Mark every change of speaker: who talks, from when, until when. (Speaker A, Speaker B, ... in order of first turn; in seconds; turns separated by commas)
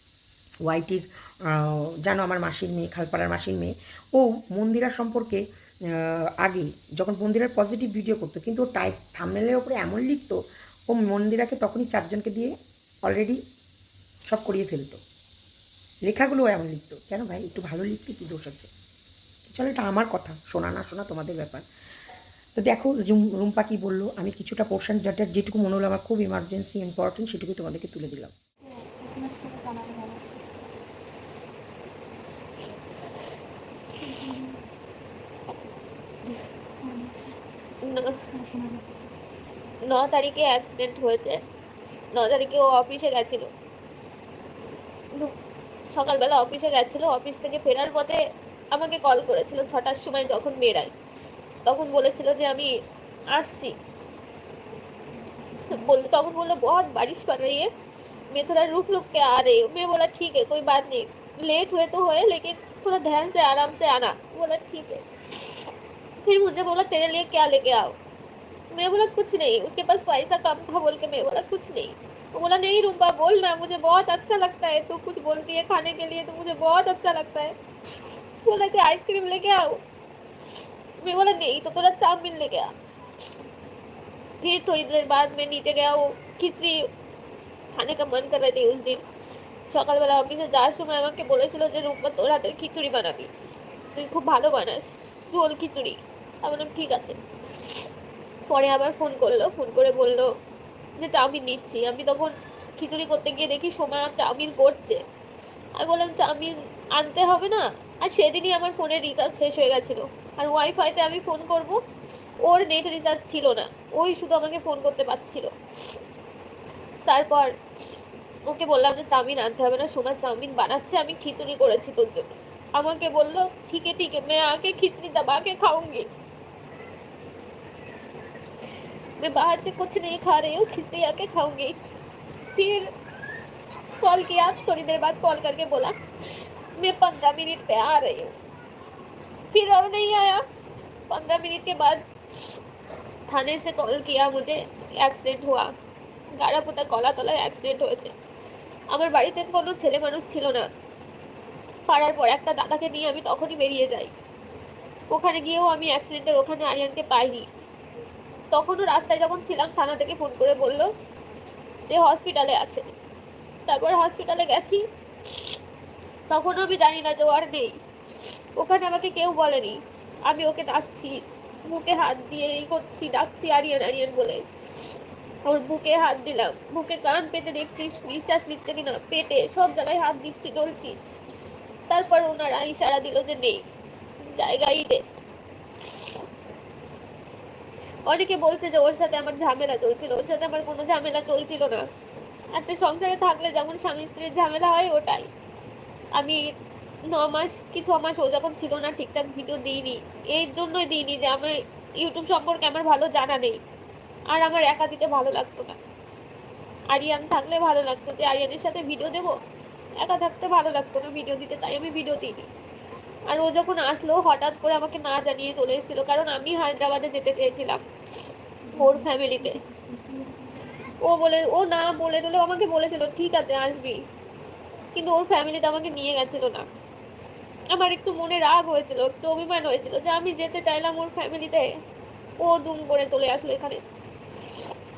Speaker A: 0.6-10.4, Speaker A: 10.9-13.4, Speaker A: 14.3-15.0, Speaker A: 16.1-18.7, Speaker A: 19.5-21.6, Speaker A: 22.5-28.3, Speaker B: 28.7-30.4, Speaker B: 34.0-34.6, Speaker B: 36.8-37.3, Speaker C: 37.8-38.2, Speaker B: 38.3-39.1, Speaker C: 39.9-41.4, Speaker C: 42.1-43.5, Speaker C: 45.9-48.2, Speaker C: 48.7-50.9, Speaker C: 51.6-52.7, Speaker C: 53.3-53.8, Speaker B: 55.2-55.8, Speaker C: 55.7-57.7, Speaker C: 58.3-65.7, Speaker C: 66.2-68.0, Speaker C: 68.7-77.5, Speaker C: 78.4-79.8, Speaker C: 81.0-82.7, Speaker C: 84.4-86.8, Speaker C: 87.7-89.0, Speaker C: 89.7-93.3, Speaker C: 93.9-97.8, Speaker C: 98.5-100.3, Speaker C: 101.0-105.0, Speaker C: 105.8-111.8, Speaker C: 112.4-115.5, Speaker C: 117.1-117.5, Speaker C: 118.5-126.1, Speaker C: 129.2-131.8, Speaker C: 132.6-132.9, Speaker C: 134.0-135.9, Speaker C: 136.8-138.3, Speaker C: 139.5-140.4, Speaker C: 141.1-142.0, Speaker C: 143.3-145.7, Speaker C: 146.4-148.1, Speaker C: 148.9-150.7, Speaker C: 151.9-154.1, Speaker C: 155.1-157.4, Speaker C: 158.5-160.9, Speaker C: 161.9-162.9, Speaker C: 163.7-164.8, Speaker C: 166.3-167.8, Speaker C: 168.6-169.8, Speaker C: 170.3-171.2, Speaker C: 171.7-174.4, Speaker C: 175.5-180.9, Speaker C: 181.9-183.6, Speaker C: 184.3-185.0, Speaker C: 185.8-186.2, Speaker C: 188.1-191.8, Speaker C: 192.5-195.3, Speaker C: 196.1-196.4, Speaker C: 197.1-203.6, Speaker C: 204.3-205.8, Speaker C: 206.9-209.3, Speaker C: 210.0-212.5, Speaker C: 213.3-217.8, Speaker B: 218.7-220.9, Speaker C: 218.8-219.6, Speaker C: 221.0-224.0, Speaker C: 224.9-226.6, Speaker C: 227.7-231.7, Speaker C: 232.4-233.8